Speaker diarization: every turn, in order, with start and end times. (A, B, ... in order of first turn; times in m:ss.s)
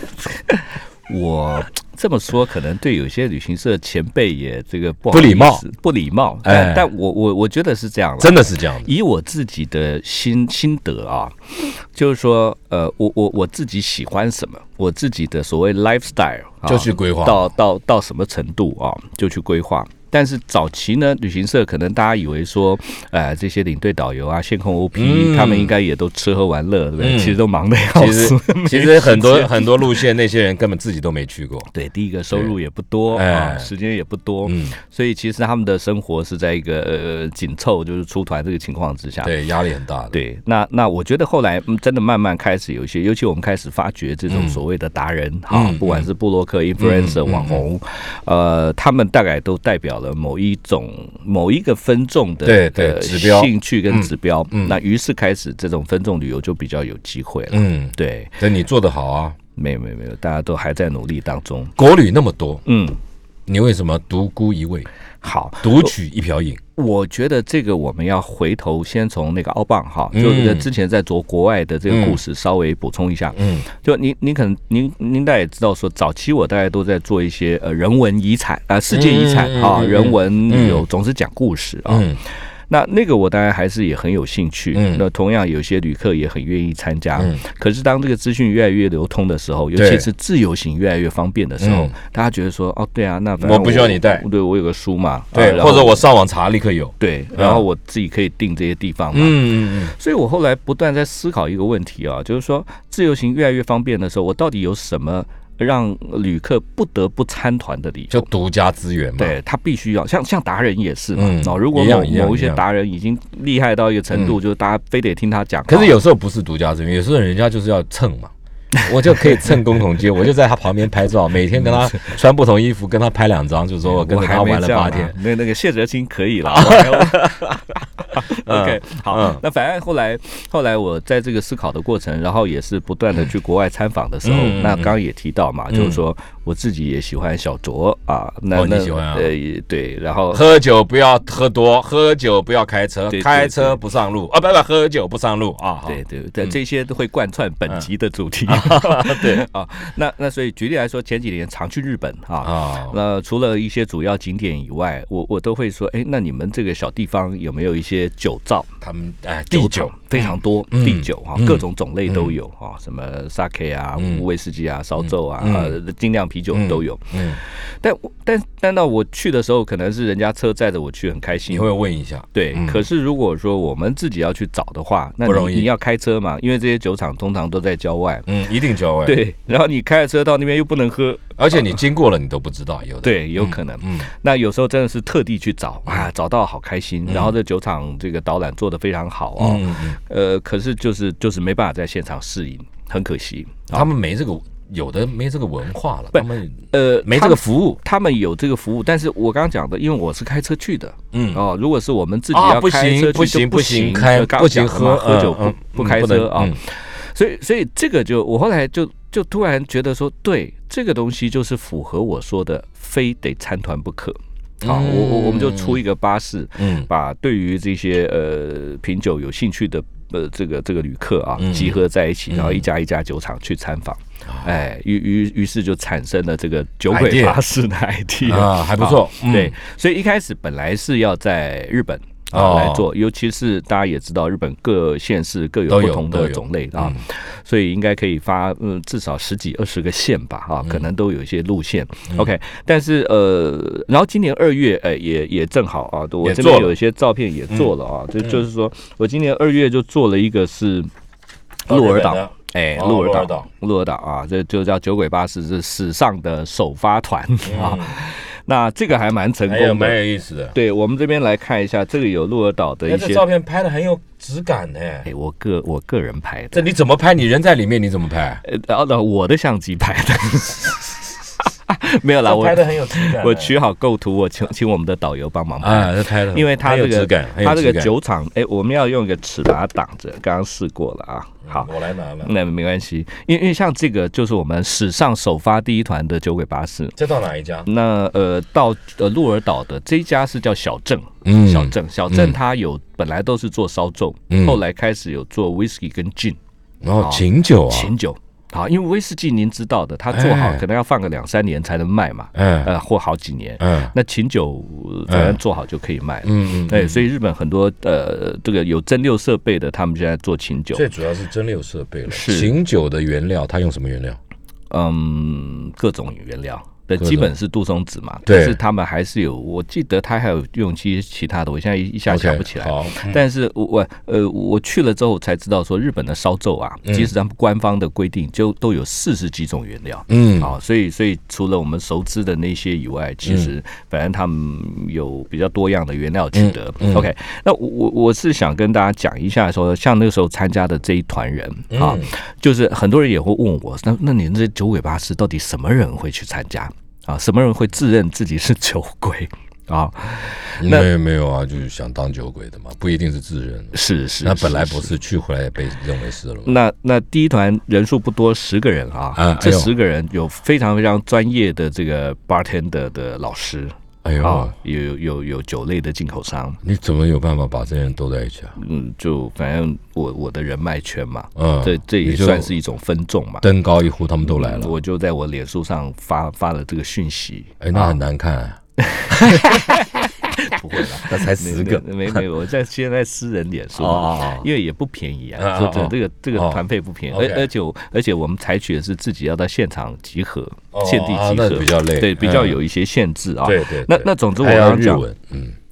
0:01.1-0:30.0 A
0:05.1-0:05.6 B
0:06.4-0:06.9 B
0:08.2-0:08.9 B
0:16.6-0:17.5 B
0:24.9-0:25.7 B
0:27.0-0:27.4 B
0:27.9-0:31.7 B
0:31.7-0:39.3 A
0:33.1-0:33.7 B
0:34.4-0:34.8 B
0:39.2-0:40.2 B
0:40.1-0:58.4 A
0:44.3-0:44.6 B
0:45.5-0:46.1 B
0:46.8-0:47.6 B
0:52.4-0:54.8 B
0:57.5-0:59.4 B
0:59.6-1:01.8 A
1:01.8-1:02.6 B
1:02.6-1:03.0 A
1:03.5-1:04.9 B
1:05.2-1:05.9 A
1:05.6-1:06.6 B
1:06.8-1:36.0 A
1:10.1-1:10.7 B
1:11.9-1:12.2 B
1:13.4-1:13.7 B
1:18.9-1:20.9 B
1:21.9-1:22.2 B
1:24.7-1:25.1 B
1:29.8-1:30.1 B
1:31.6-1:31.9 B
1:33.4-1:34.2 B
1:35.3-1:37.6 B
1:37.0-1:48.2 A
1:39.1-1:39.9 B
1:48.1-1:49.4 B
1:49.2-1:56.0 A
1:51.2-1:52.6 B
1:55.7-2:05.2 B
1:58.7-1:59.6 A
2:01.6-2:02.2 A
2:03.9-2:20.6 A
2:06.5-2:07.6 B
2:08.1-2:09.4 B
2:14.2-2:15.0 B
2:15.7-2:16.0 B
2:18.5-2:19.3 B
2:20.3-2:26.6 B
2:23.1-2:23.8 A
2:25.9-2:38.7 A
2:28.5-2:29.5 B
2:32.4-2:33.0 B
2:38.8-2:42.4 B
2:39.5-2:51.7 A
2:44.0-2:44.3 B
2:45.0-2:45.8 B
2:46.5-2:47.4 B
2:51.5-2:52.8 B
2:52.3-2:58.3 A
2:55.2-2:55.7 B
2:58.3-2:59.2 B
2:59.0-3:01.6 A
3:01.4-3:04.1 B
3:03.0-3:13.9 A
3:07.1-3:07.3 B
3:09.4-3:10.0 B
3:13.7-3:17.8 B
3:16.1-4:10.9 A
3:21.1-3:21.4 B
3:22.3-3:26.6 B
3:34.6-3:35.8 B
3:36.6-3:36.9 B
3:41.4-3:41.8 B
3:42.3-3:42.6 B
3:44.3-3:44.5 B
3:46.9-3:47.4 B
3:48.2-3:49.6 B
3:52.3-3:52.9 B
3:55.7-3:57.0 B
4:06.2-4:06.8 B
4:11.7-4:20.0 A
4:11.7-4:13.5 B
4:17.4-4:18.0 B
4:19.5-4:20.6 B
4:20.5-4:23.3 A
4:22.8-4:25.1 B
4:25.0-4:26.7 A
4:26.5-4:28.4 B
4:28.4-4:47.0 A
4:32.2-4:33.5 B
4:35.6-4:37.9 B
4:41.5-4:42.3 B
4:47.0-4:47.7 B
4:47.7-4:56.4 A
4:51.2-4:52.4 B
4:54.3-4:54.6 B
4:56.8-4:57.9 B
4:57.0-5:10.8 A
5:00.1-5:00.6 B
5:02.4-5:02.7 B
5:03.6-5:03.9 B
5:05.1-5:05.4 B
5:06.2-5:07.0 B
5:10.7-5:14.2 B
5:12.1-5:12.5 A
5:14.7-5:50.9 A
5:17.0-5:17.3 B
5:18.3-5:18.6 B
5:22.1-5:23.2 B
5:26.9-5:27.1 B
5:30.1-5:30.5 B
5:36.3-5:37.1 B
5:41.7-5:42.1 B
5:50.6-5:56.6 B
5:53.7-5:54.9 A
5:56.5-6:06.6 A
5:59.2-5:59.7 B
6:04.0-6:04.5 B
6:06.6-6:08.6 B
6:08.6-6:13.5 A
6:11.4-6:12.5 B
6:13.4-6:14.8 B
6:14.2-6:18.0 A
6:17.6-6:20.0 B
6:18.8-6:35.0 A
6:20.8-6:22.2 B
6:23.8-6:24.5 B
6:25.4-6:27.5 B
6:30.7-6:32.6 B
6:33.4-6:35.6 B